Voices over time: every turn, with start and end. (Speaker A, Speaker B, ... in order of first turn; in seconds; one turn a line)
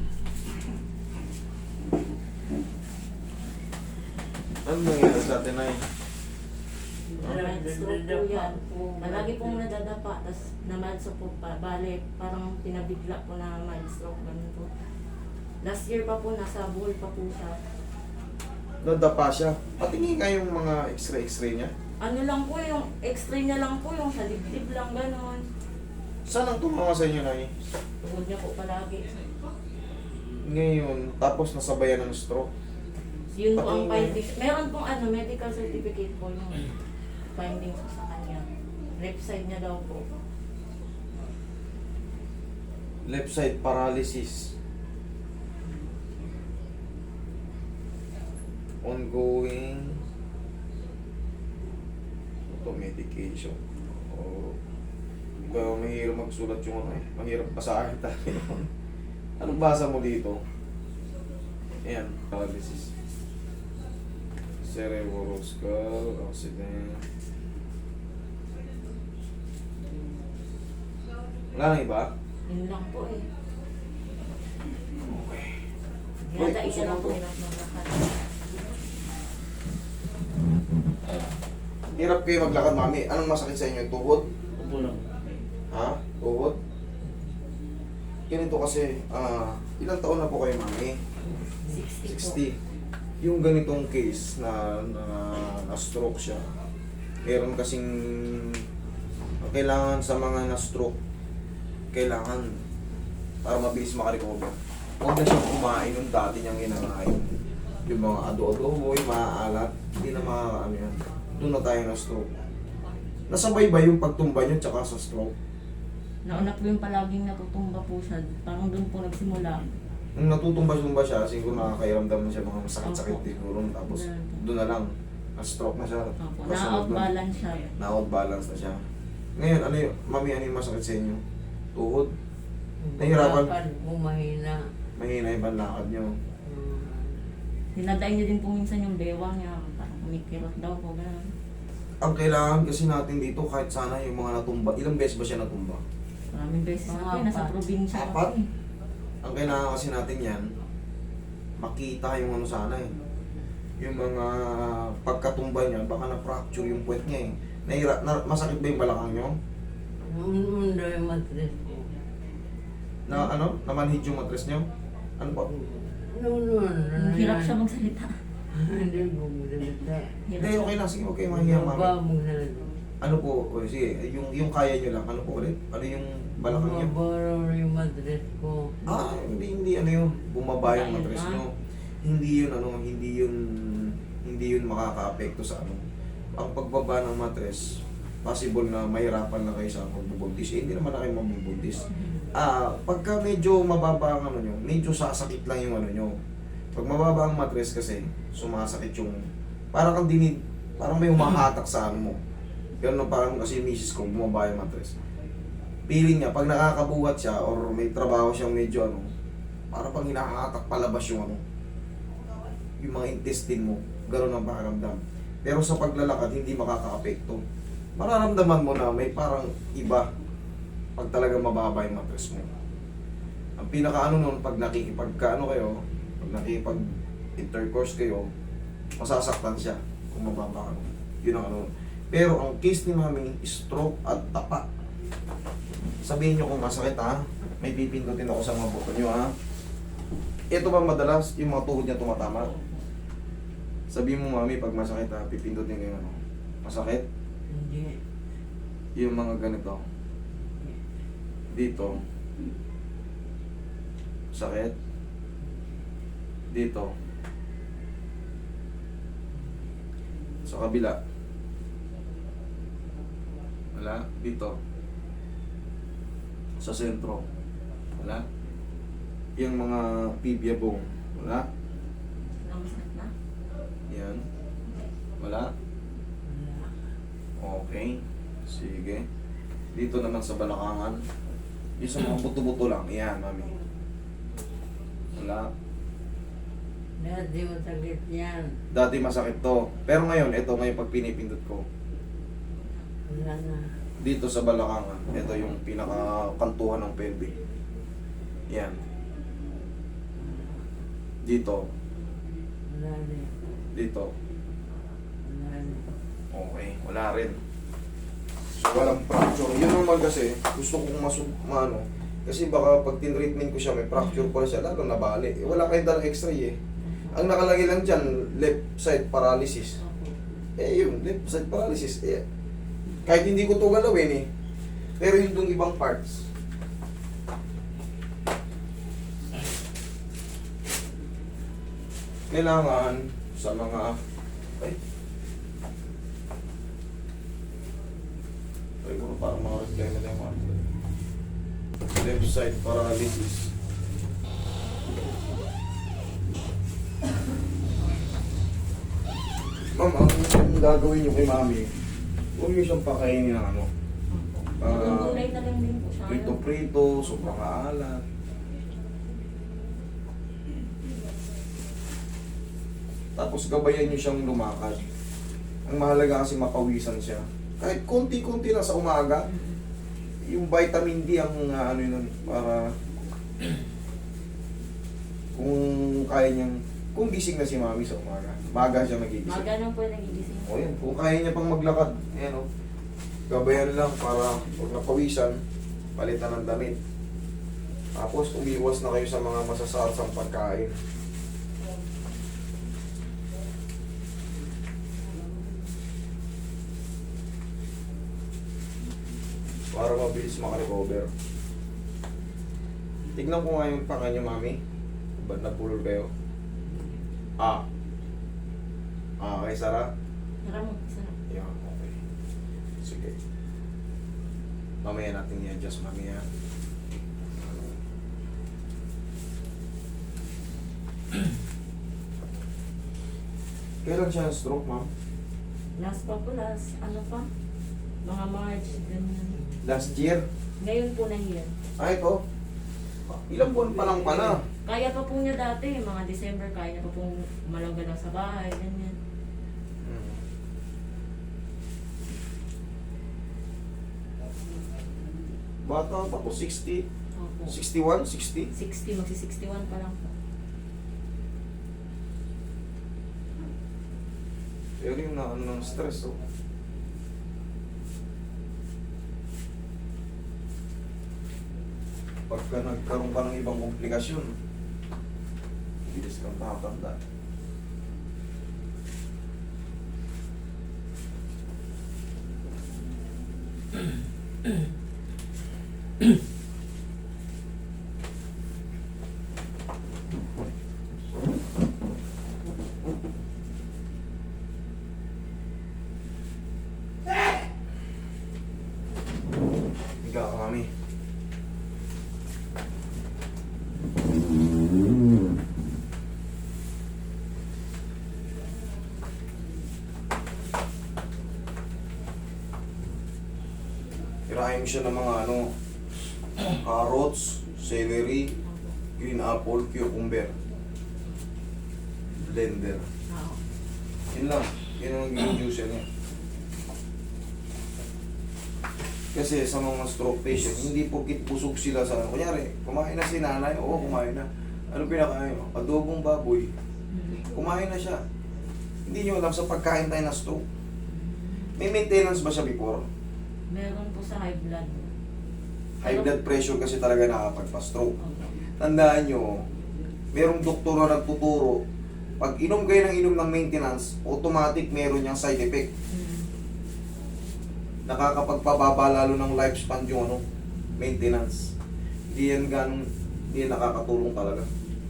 Speaker A: 4.6-5.8
Speaker B: 7.1-9.6
Speaker C: 7.2-14.7
Speaker C: 15.6-17.6
Speaker A: 18.8-21.7
Speaker C: 22.0-25.4
Speaker A: 26.2-27.5
Speaker C: 28.0-29.1
Speaker A: 30.4-32.5
Speaker C: 33.3-36.7
Speaker A: 33.6-34.2
Speaker C: 37.3-40.0
Speaker A: 43.0-44.5
Speaker A: 48.8-50.0
Speaker A: 52.5-54.6
Speaker A: 55.4-58.7
Speaker A: 59.4-60.4
Speaker A: 61.8-62.9
Speaker A: 64.6-67.0
Speaker A: 71.5-72.1
Speaker C: 72.5-73.2
Speaker A: 75.0-75.5
Speaker C: 76.2-78.2
Speaker A: 76.3-77.2
Speaker A: 81.9-84.3
Speaker A: 85.7-86.6
Speaker A: 88.3-91.0
Speaker C: 91.6-92.4
Speaker A: 92.0-92.6
Speaker A: 93.2-96.4
Speaker A: 97.2-98.6
Speaker A: 99.4-101.0
Speaker A: 101.9-102.6
Speaker A: 103.4-107.2
Speaker A: 107.8-112.2
Speaker A: 113.3-115.3
Speaker C: 116.2-119.6
Speaker A: 120.2-127.1
Speaker C: 122.8-123.3
Speaker C: 123.9-124.4
Speaker C: 126.2-127.7
Speaker A: 127.7-128.8
Speaker A: 129.3-131.2
Speaker A: 131.7-132.1
Speaker B: 132.8-134.7
Speaker A: 133.0-133.6
Speaker A: 134.9-136.1
Speaker B: 136.4-137.2
Speaker C: 137.7-141.3
Speaker A: 142.0-145.8
Speaker C: 146.3-148.5
Speaker B: 146.8-147.5
Speaker A: 147.9-148.3
Speaker A: 149.2-150.4
Speaker A: 151.6-152.9
Speaker A: 153.8-159.3
Speaker B: 160.1-161.9
Speaker A: 163.1-164.7
Speaker A: 165.2-165.5
Speaker B: 165.5-167.6
Speaker C: 166.9-168.2
Speaker B: 168.5-170.2
Speaker C: 170.2-170.8
Speaker A: 170.4-171.9
Speaker B: 171.3-172.7
Speaker A: 173.0-176.9
Speaker B: 176.4-178.8
Speaker A: 178.9-181.5
Speaker C: 180.6-181.4
Speaker A: 182.0-185.8
Speaker A: 186.3-196.1
Speaker A: 196.7-199.2
Speaker A: 199.7-202.2
Speaker A: 202.8-204.9
Speaker A: 205.9-209.1
Speaker A: 209.7-211.4
Speaker A: 212.8-217.4
Speaker A: 218.0-220.1
Speaker A: 221.0-222.5
Speaker A: 223.6-228.3
Speaker A: 229.0-234.6
Speaker A: 236.0-239.3
Speaker A: 240.5-242.5
Speaker C: 242.2-242.8
Speaker A: 243.9-247.0
Speaker B: 247.5-248.0
Speaker A: 248.9-249.8
Speaker B: 250.4-250.8
Speaker A: 251.5-252.0
Speaker A: 254.3-254.7
Speaker A: 256.5-256.9
Speaker A: 260.5-261.0
Speaker A: 263.7-264.6
Speaker A: 266.6-267.2
Speaker A: 268.0-268.2
Speaker A: 269.4-271.5
Speaker C: 272.4-273.1
Speaker A: 273.9-274.2
Speaker A: 275.2-275.5
Speaker B: 276.3-276.7
Speaker A: 277.4-279.0
Speaker A: 279.7-281.0
Speaker A: 281.8-283.5
Speaker A: 285.1-285.5
Speaker B: 287.0-288.6
Speaker A: 288.7-291.6
Speaker B: 293.1-293.7
Speaker A: 294.0-297.3
Speaker A: 298.5-298.8
Speaker B: 300.2-300.6
Speaker A: 301.2-301.7
Speaker B: 302.7-303.3
Speaker A: 303.7-304.1
Speaker B: 305.2-305.9
Speaker A: 306.3-307.4
Speaker A: 308.5-316.6
Speaker C: 313.9-314.3
Speaker C: 316.8-317.2
Speaker A: 317.1-319.8
Speaker C: 319.8-320.2
Speaker A: 320.6-322.2
Speaker A: 323.0-324.3
Speaker A: 325.0-326.3
Speaker A: 332.3-334.0
Speaker A: 338.8-340.6
Speaker A: 341.9-343.5
Speaker A: 349.7-351.7
Speaker A: 352.4-353.7
Speaker C: 354.1-356.4
Speaker A: 354.6-355.2
Speaker A: 356.1-358.0
Speaker A: 363.2-364.8
Speaker A: 365.6-369.3
Speaker C: 369.3-369.6
Speaker A: 370.3-372.7
Speaker A: 375.3-379.5
Speaker C: 379.2-380.6
Speaker A: 380.4-382.4
Speaker A: 383.3-385.4
Speaker A: 385.9-386.8
Speaker A: 387.9-390.7
Speaker A: 399.7-401.1
Speaker A: 403.1-404.6
Speaker A: 405.2-406.1
Speaker A: 409.2-409.9
Speaker C: 410.4-411.1
Speaker A: 411.3-412.0
Speaker A: 412.8-413.1
Speaker A: 414.8-416.2
Speaker A: 423.8-424.9
Speaker C: 425.8-427.3
Speaker C: 428.0-429.5
Speaker A: 429.6-430.2
Speaker C: 430.6-431.5
Speaker A: 431.8-432.2
Speaker A: 433.1-434.4
Speaker C: 433.7-438.9
Speaker A: 439.8-440.2
Speaker A: 445.6-446.8
Speaker C: 447.2-447.6
Speaker A: 447.5-448.5
Speaker C: 448.5-450.1
Speaker A: 454.8-456.2
Speaker A: 462.3-464.3
Speaker A: 465.9-467.0
Speaker A: 490.0-490.7
Speaker A: 504.3-505.5
Speaker A: 506.4-508.3
Speaker A: 509.0-510.3
Speaker A: 512.2-512.9
Speaker C: 513.1-513.4
Speaker A: 514.1-515.9
Speaker A: 519.1-526.5
Speaker C: 526.9-527.2
Speaker A: 527.2-528.0
Speaker A: 528.9-530.4
Speaker C: 530.9-531.5
Speaker A: 531.5-532.8
Speaker C: 533.5-534.9
Speaker A: 535.8-537.9
Speaker C: 535.8-536.1
Speaker C: 538.0-538.4
Speaker A: 538.6-539.3
Speaker A: 540.1-541.6
Speaker A: 542.2-545.7
Speaker C: 545.9-546.3
Speaker A: 547.9-550.2
Speaker A: 550.8-551.5
Speaker A: 552.1-554.5